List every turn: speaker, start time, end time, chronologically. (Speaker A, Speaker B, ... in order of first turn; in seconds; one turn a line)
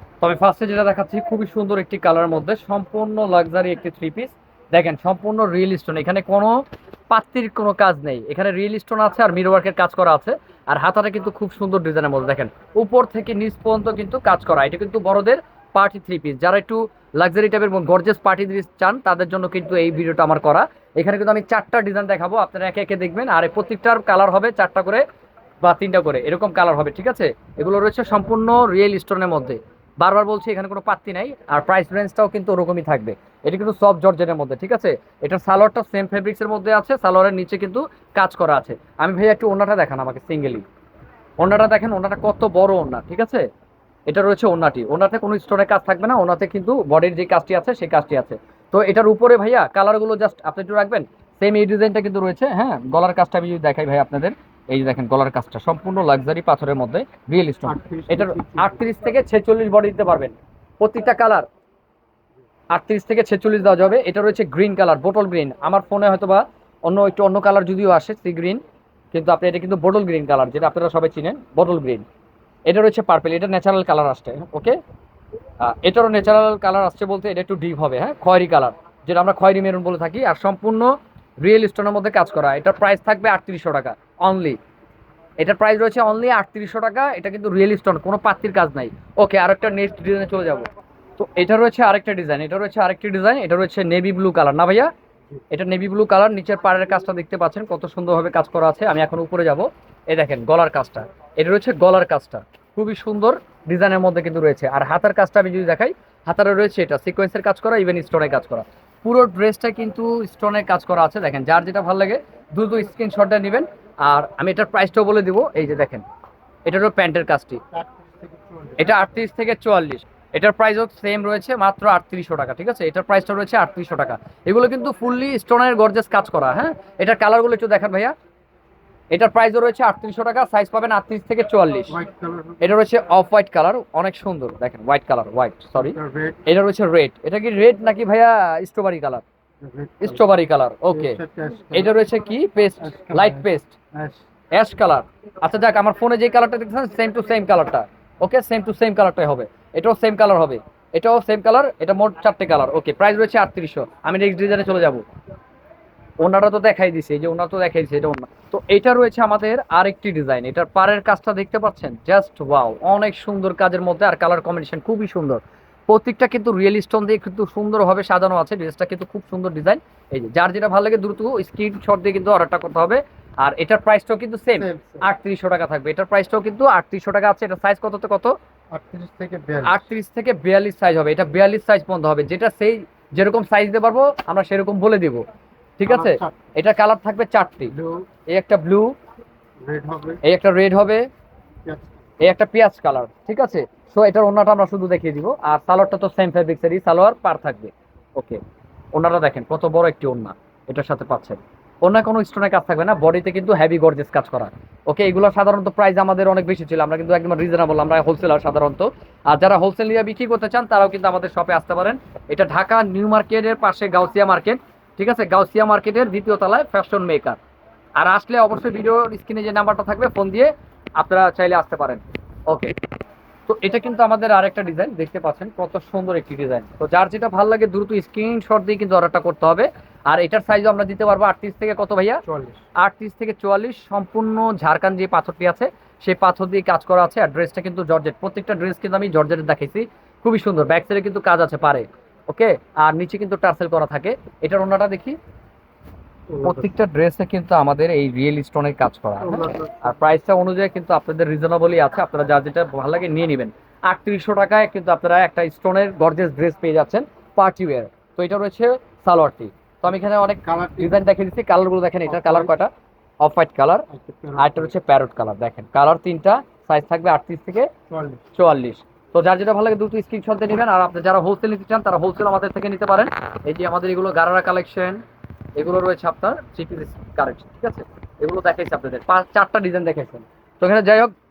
Speaker A: 0.2-25.0
Speaker A: 25.6-40.6
Speaker A: 41.4-43.5
Speaker A: 44.1-61.4
Speaker B: 57.7-58.8
Speaker A: 62.7-68.6
Speaker A: 69.1-72.0
Speaker A: 72.7-74.8
Speaker A: 75.6-84.6
Speaker A: 85.4-94.9
Speaker A: 95.5-116.0
Speaker A: 116.7-117.6
Speaker B: 117.7-119.0
Speaker A: 118.8-128.1
Speaker A: 129.1-131.9
Speaker B: 131.9-132.8
Speaker A: 132.6-139.2
Speaker B: 135.8-136.4
Speaker B: 139.6-140.2
Speaker A: 140.0-141.2
Speaker B: 140.9-141.9
Speaker A: 141.7-143.7
Speaker B: 142.8-144.2
Speaker A: 144.5-155.1
Speaker A: 156.2-178.3
Speaker B: 174.6-175.0
Speaker B: 178.7-179.8
Speaker A: 179.7-185.2
Speaker A: 185.8-187.7
Speaker B: 185.9-186.4
Speaker B: 187.7-188.1
Speaker A: 188.3-188.9
Speaker B: 189.6-190.2
Speaker A: 190.2-191.1
Speaker B: 191.6-192.0
Speaker A: 192.2-198.4
Speaker A: 198.9-217.4
Speaker A: 218.0-222.8
Speaker A: 223.5-232.2
Speaker B: 232.2-232.6
Speaker A: 232.8-245.2
Speaker B: 246.3-246.7
Speaker A: 246.4-262.7
Speaker B: 249.2-249.8
Speaker B: 260.4-260.9
Speaker B: 262.1-262.5
Speaker A: 263.2-263.9
Speaker B: 263.9-264.7
Speaker A: 264.4-267.7
Speaker B: 267.9-268.2
Speaker A: 268.3-275.0
Speaker A: 275.6-281.1